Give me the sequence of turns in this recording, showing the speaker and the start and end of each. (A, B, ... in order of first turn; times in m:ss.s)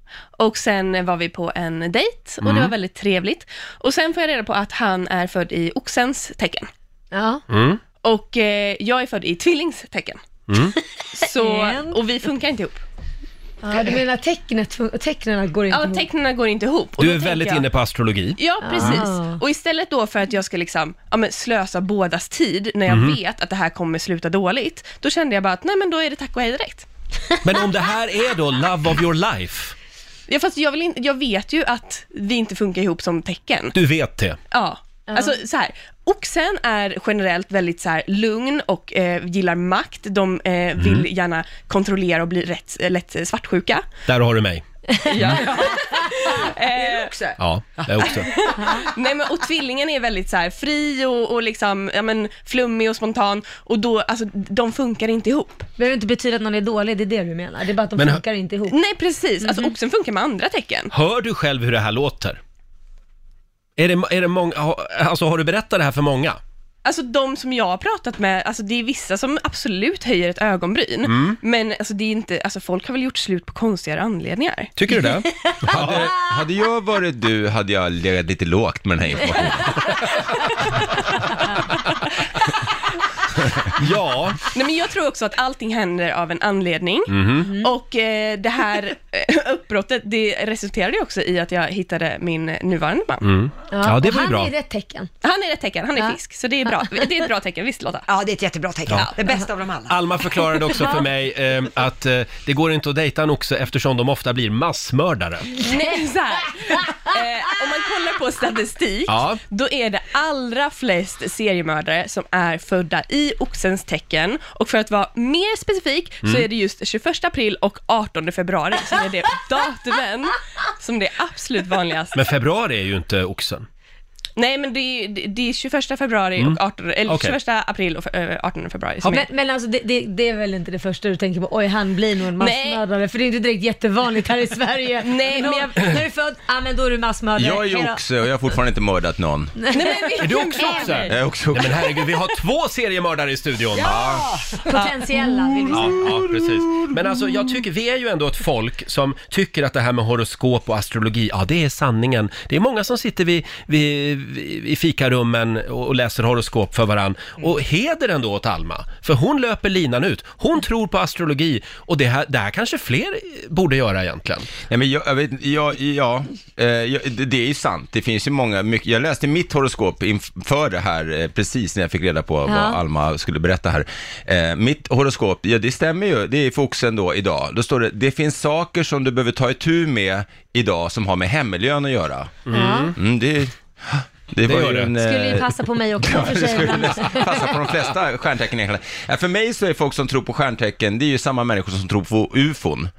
0:00.4-0:06.7 A
0:07.1-0:07.4 B
0:07.5-0:07.8 C
0:08.0-0:10.2 A
0:10.5-0:10.8 C
0:11.1-0:12.8 A
0:11.3-0:11.9 B
0:13.6-0:16.0 B
0:15.7-0:17.6 A
0:17.0-0:19.0 C
0:18.4-0:26.8 A
0:18.6-0:19.4 B
0:22.9-0:23.2 C
0:27.4-0:29.7 C
0:30.3-0:33.7 A
0:33.7-0:34.4 C
0:34.5-0:43.9 A
0:35.1-0:35.3 B
0:40.8-0:41.1 C
0:44.1-0:44.6 C
0:45.0-0:47.2 A
0:46.8-0:47.4 D
0:47.4-0:48.3 C
0:48.1-0:55.6 A
0:48.6-0:48.9 B
0:55.8-0:58.8 B
0:58.7-1:00.9 A
0:59.4-0:59.7 B
1:00.9-1:02.4 C
1:03.8-1:06.4 C
1:06.8-1:14.7 A
1:11.0-1:11.4 C
1:14.8-1:16.1 C
1:15.6-1:20.5 E
1:23.8-1:24.4 C
1:24.5-1:33.2 A
1:27.1-1:27.5 C
1:33.2-1:34.5 C
1:33.7-1:35.1 B
1:35.2-1:38.1 A
1:38.1-1:40.1 D
1:39.9-1:45.6 C
1:45.6-2:02.2 A
1:49.1-1:49.4 C
2:02.1-2:03.6 C
2:04.4-2:09.2 A
2:06.4-2:07.4 C
2:09.0-2:18.0 B
2:12.4-2:12.8 A
2:15.0-2:15.8 A
2:17.4-2:19.6 E
2:19.7-2:21.0 B
2:19.7-2:21.1 A
2:20.2-2:23.9 C
2:21.1-2:22.0 E
2:23.8-2:24.3 E
2:24.6-2:26.2 B
2:25.7-2:44.5 C
2:44.7-3:02.4 E
2:52.4-2:52.8 B
3:02.4-3:03.0 C
3:02.5-3:02.9 B
3:02.9-3:12.9 E
3:04.4-3:04.9 C
3:05.0-3:07.5 B